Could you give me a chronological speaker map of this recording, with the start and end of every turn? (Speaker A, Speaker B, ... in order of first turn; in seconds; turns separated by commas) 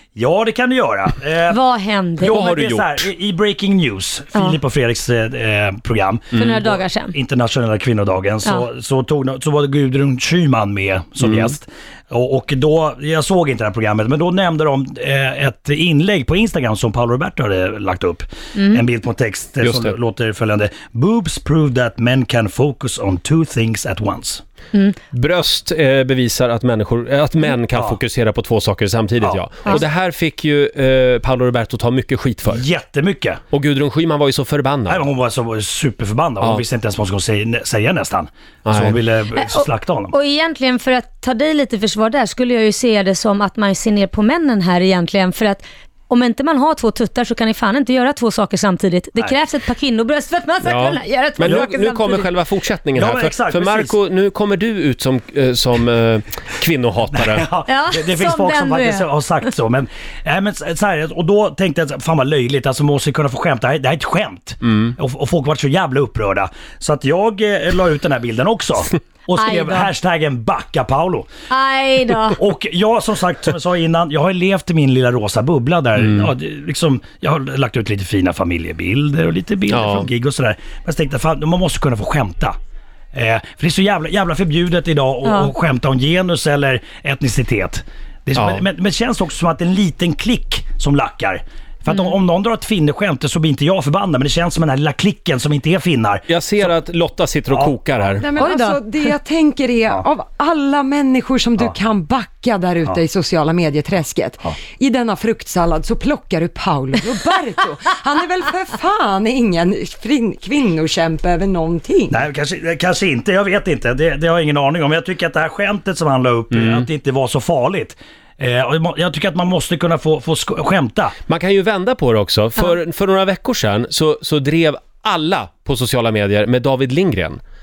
Speaker A: 0.1-1.6, Speaker B: 1.5-2.4, Speaker A: 2.2-24.4, Speaker C: 2.3-3.0, Speaker B: 6.3-7.2, Speaker C: 11.2-11.5, Speaker B: 18.6-18.8, Speaker C: 19.6-19.9, Speaker C: 25.1-32.6, Speaker A: 27.7-28.0, Speaker A: 29.2-29.8, Speaker A: 32.5-33.4, Speaker C: 33.5-35.0, Speaker A: 34.9-40.1, Speaker C: 38.6-39.0, Speaker B: 39.4-52.3, Speaker C: 50.6-57.5, Speaker A: 53.0-54.0, Speaker A: 57.1-71.3, Speaker B: 57.7-59.5, Speaker B: 69.3-69.9, Speaker B: 71.5-72.4, Speaker A: 72.3-82.6, Speaker C: 76.0-76.3, Speaker C: 79.7-80.1, Speaker A: 83.1-96.3, Speaker B: 85.2-85.5, Speaker C: 88.3-88.6, Speaker C: 96.3-98.3, Speaker A: 97.5-97.8, Speaker D: 98.2-112.2, Speaker B: 98.4-99.1, Speaker A: 112.1-121.2, Speaker C: 116.5-116.9, Speaker C: 121.3-127.4